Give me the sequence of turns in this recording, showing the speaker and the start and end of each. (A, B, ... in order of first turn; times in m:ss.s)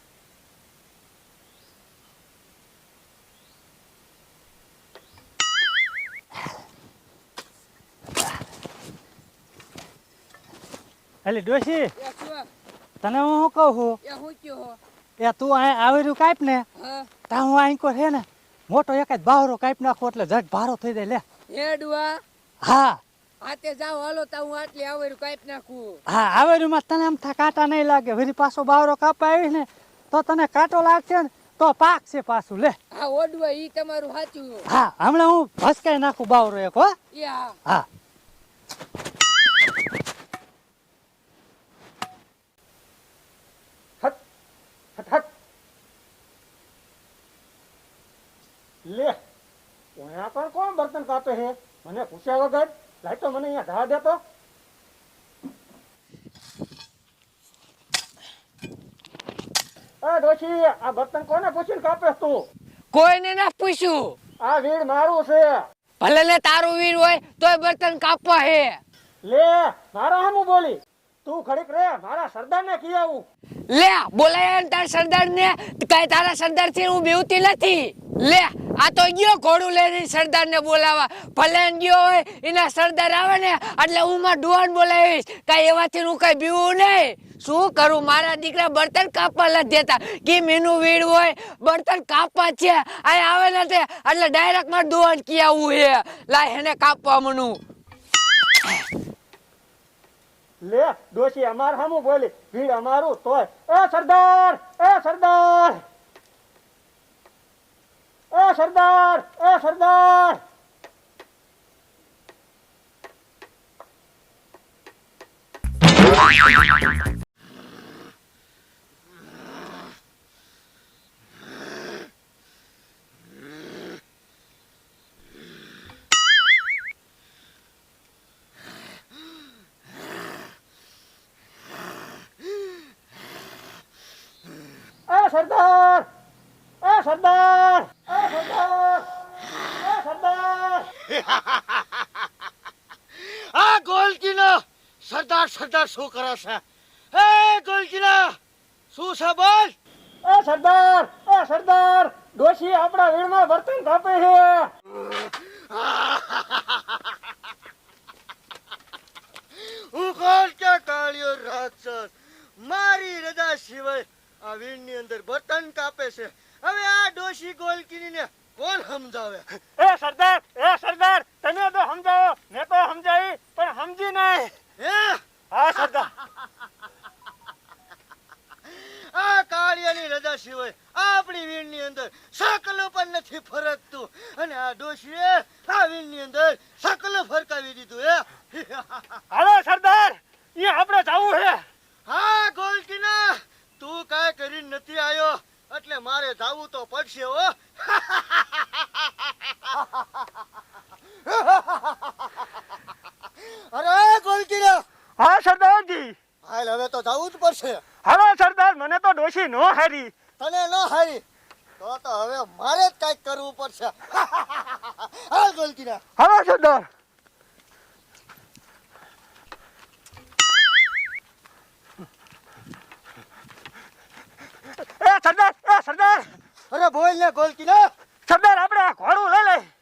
0:11.2-0:11.9 A
0:12.0-0:12.5 B
0:13.0-0:14.0 A
0:14.0-0:14.8 B
0:15.2-0:16.6 A
0:16.7-0:17.1 B
0:17.3-0:21.2 A
0:21.5-0:22.2 B
0:22.6-0:23.0 A
0:23.4-0:26.0 B
0:26.1-0:32.8 A
0:32.9-0:34.6 B
0:34.7-0:37.0 A
0:37.1-0:37.6 B
0:45.0-0:45.3 C
0:48.8-0:49.2 C
0:50.0-0:54.2 C
1:00.0-1:02.4 C
1:02.9-1:04.2 B
1:04.4-1:05.6 C
1:06.0-1:08.8 B
1:09.2-1:13.2 C
1:13.7-1:37.6 B
1:40.6-1:45.8 C
1:48.3-1:50.4 C
2:15.1-2:16.1 C
2:16.8-2:19.1 C
2:19.8-2:20.9 C
2:21.1-2:21.8 D
2:23.2-2:26.6 D
2:27.1-2:28.3 D
2:28.9-2:29.8 D
2:30.2-2:34.7 C
2:35.0-2:36.8 D
2:39.6-2:49.6 D
2:49.8-2:54.5 C
2:54.8-2:55.2 D
2:55.5-2:56.1 C
2:58.7-3:09.2 D
3:09.3-3:11.6 C
3:12.1-3:18.8 D
3:21.2-3:22.3 D
3:23.4-3:24.8 D
3:25.2-3:26.2 C
3:26.4-3:27.8 D
3:28.0-3:30.1 C
3:30.4-3:31.2 D
3:31.8-3:36.0 D
3:36.2-3:36.9 C
3:44.8-3:46.3 C
3:46.7-3:47.9 D
3:48.2-3:49.7 C